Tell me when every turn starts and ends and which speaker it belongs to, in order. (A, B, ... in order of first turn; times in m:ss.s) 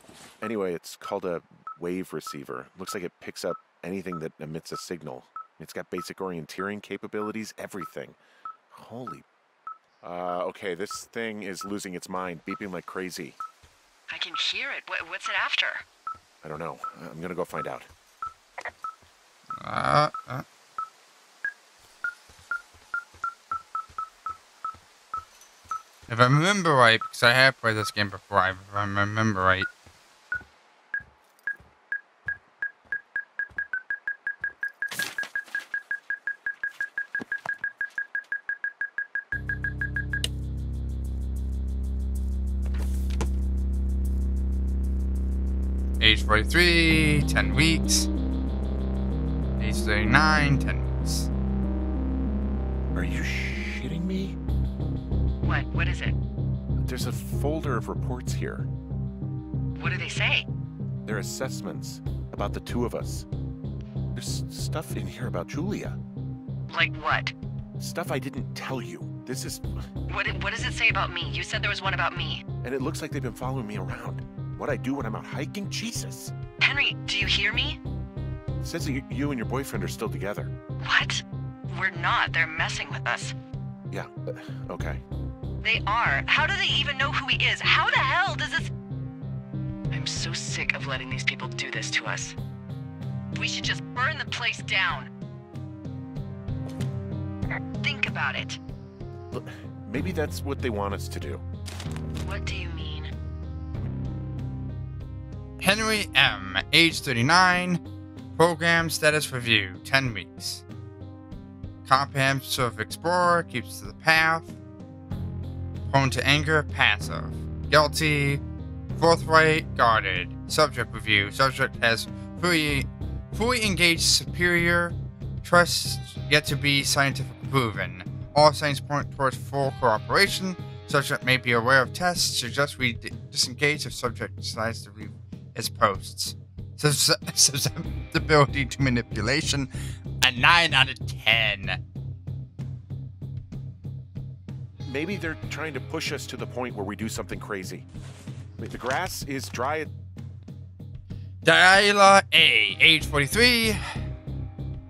0:00.4-0:08.2 A
0:08.7-0:09.3 A
0:10.0-0:13.4 A
0:14.1-0:15.8 B
0:16.4-0:17.9 A
0:19.6-0:20.4 C
0:26.1-0:29.7 C
0:46.0-0:48.1 C
0:49.6-0:51.3 C
0:52.9-0:54.4 A
0:55.4-0:56.2 B
0:56.8-0:58.7 A
0:59.8-1:00.5 B
1:01.1-1:03.3 A
1:04.1-1:06.0 A
1:06.7-1:07.3 B
1:07.8-1:09.9 A
1:10.1-1:12.4 B
1:12.6-1:16.3 A
1:16.6-1:17.8 B
1:18.6-1:20.5 A
1:20.8-1:23.3 B
1:23.9-1:25.0 A
1:25.6-1:28.7 B
1:29.9-1:32.4 B
1:33.3-1:35.1 B
1:37.8-1:38.6 B
1:39.3-1:41.4 A
1:42.2-1:43.1 B
1:45.6-1:47.8 C
1:48.4-1:50.6 C
1:51.8-1:54.5 C
1:55.9-1:58.4 C
1:59.0-2:19.7 C
2:20.2-2:21.8 C
2:24.8-2:27.9 A
2:28.6-2:29.9 A
2:31.4-2:33.8 C